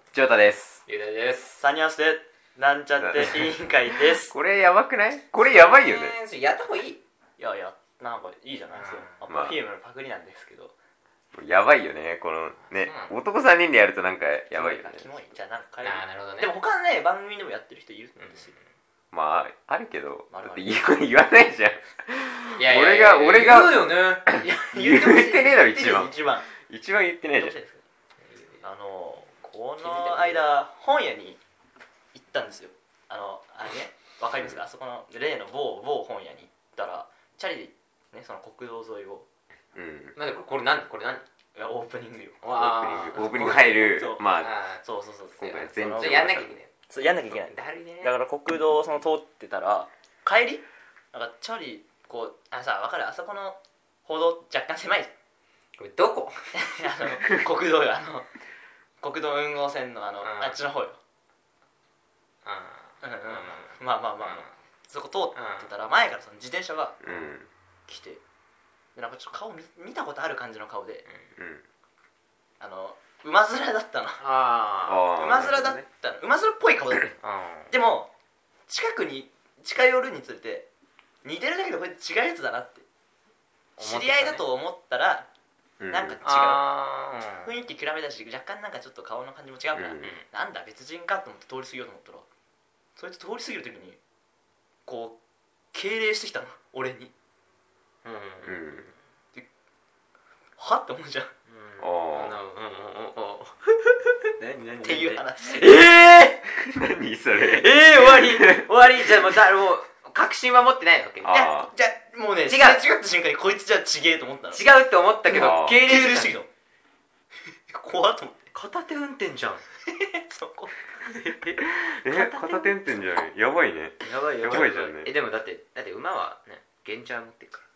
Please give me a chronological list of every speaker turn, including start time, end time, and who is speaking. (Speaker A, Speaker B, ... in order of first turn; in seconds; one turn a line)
Speaker A: 0.1-0.8
Speaker B: 0.9-1.6
Speaker C: 1.6-4.3
Speaker A: 3.0-3.5
Speaker A: 4.1-6.2
Speaker B: 5.5-7.0
Speaker C: 7.4-10.7
Speaker B: 8.7-9.1
Speaker A: 9.3-9.6
Speaker A: 11.3-15.1
Speaker B: 12.7-13.1
Speaker C: 14.5-18.6
Speaker B: 15.8-16.5
Speaker B: 18.2-18.6
Speaker A: 19.1-27.6
Speaker C: 20.3-20.8
Speaker B: 22.6-24.3
Speaker C: 24.4-26.5
Speaker C: 27.4-27.8
Speaker B: 28.2-28.6
Speaker C: 28.6-31.4
Speaker B: 29.9-30.4
Speaker C: 32.1-39.3
Speaker A: 39.8-40.2
Speaker B: 40.2-41.2
Speaker C: 41.6-42.4
Speaker B: 42.4-43.6
Speaker A: 42.5-44.5
Speaker C: 43.1-44.2
Speaker B: 44.4-44.8
Speaker C: 44.8-46.4
Speaker A: 45.4-46.5
Speaker B: 45.8-46.7
Speaker C: 46.9-55.1
Speaker B: 47.3-48.1
Speaker B: 55.8-56.8
Speaker C: 56.5-58.3
Speaker C: 59.0-61.0
Speaker B: 60.2-60.6
Speaker B: 62.5-64.5
Speaker C: 63.0-67.3
Speaker B: 65.3-65.7
Speaker A: 67.0-67.5
Speaker C: 67.9-68.2
Speaker C: 69.0-71.0
Speaker A: 71.4-71.7
Speaker C: 72.6-74.2
Speaker B: 74.2-75.1
Speaker A: 74.8-75.8
Speaker C: 75.1-77.2
Speaker B: 77.2-77.7
Speaker C: 77.7-78.1
Speaker C: 78.7-80.7
Speaker C: 81.2-82.9
Speaker B: 83.8-84.5
Speaker C: 83.8-85.3
Speaker A: 85.8-86.2
Speaker C: 85.9-86.7
Speaker B: 86.2-87.5
Speaker C: 87.5-92.3
Speaker A: 89.8-90.2
Speaker C: 93.0-94.0
Speaker C: 94.9-95.2
Speaker C: 95.7-97.1
Speaker B: 98.0-98.6
Speaker A: 98.4-98.9
Speaker C: 100.6-101.3
Speaker B: 101.5-106.5
Speaker A: 101.8-102.4
Speaker C: 104.8-105.8
Speaker A: 106.5-109.4
Speaker B: 107.4-111.4
Speaker A: 111.2-111.7
Speaker C: 111.3-114.6
Speaker B: 112.5-112.8
Speaker B: 114.5-116.3
Speaker A: 115.3-115.8
Speaker C: 115.3-116.5
Speaker C: 117.7-118.5
Speaker B: 118.5-119.6
Speaker C: 119.9-120.8
Speaker B: 121.0-123.0
Speaker A: 121.6-125.1
Speaker B: 124.0-127.7
Speaker C: 124.4-124.7